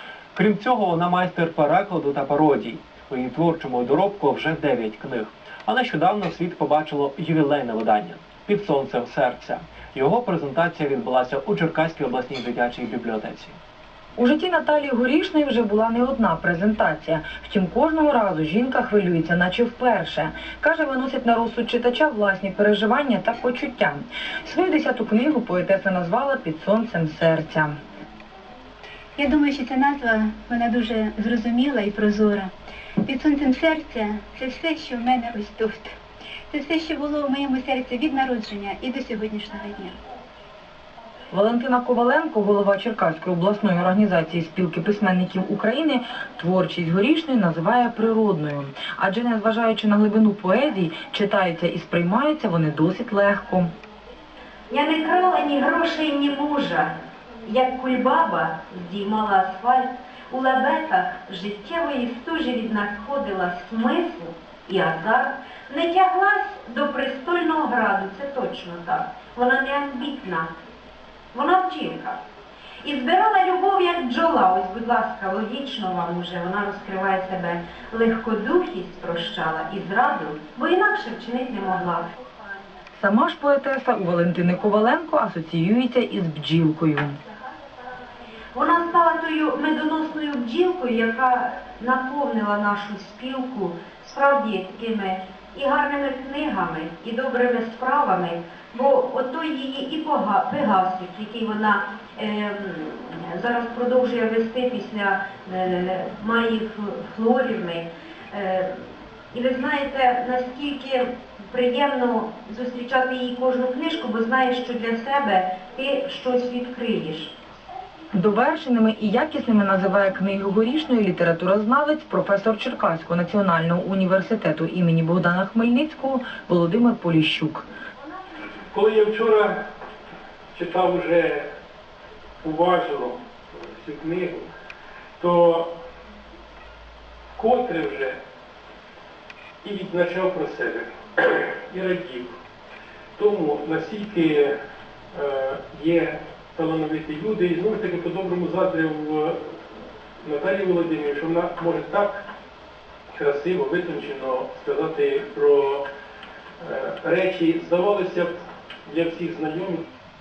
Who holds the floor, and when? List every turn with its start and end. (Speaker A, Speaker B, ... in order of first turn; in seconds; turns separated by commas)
Speaker A: 0.3-13.6, Speaker B: 14.2-27.7, Speaker C: 29.2-32.5, Speaker C: 33.0-35.9, Speaker C: 36.5-40.0, Speaker B: 41.3-53.7, Speaker D: 54.7-70.5, Speaker D: 71.3-72.2, Speaker D: 72.8-82.1, Speaker B: 83.0-87.2, Speaker D: 88.5-108.8, Speaker D: 109.3-117.3, Speaker B: 118.1-127.7, Speaker E: 128.7-129.6, Speaker E: 130.5-131.5, Speaker E: 132.4-134.5, Speaker E: 135.2-135.8, Speaker E: 137.3-138.2, Speaker E: 139.6-142.3, Speaker E: 143.2-144.5, Speaker E: 145.1-149.5, Speaker E: 150.2-152.3, Speaker E: 153.1-155.9, Speaker E: 156.6-159.8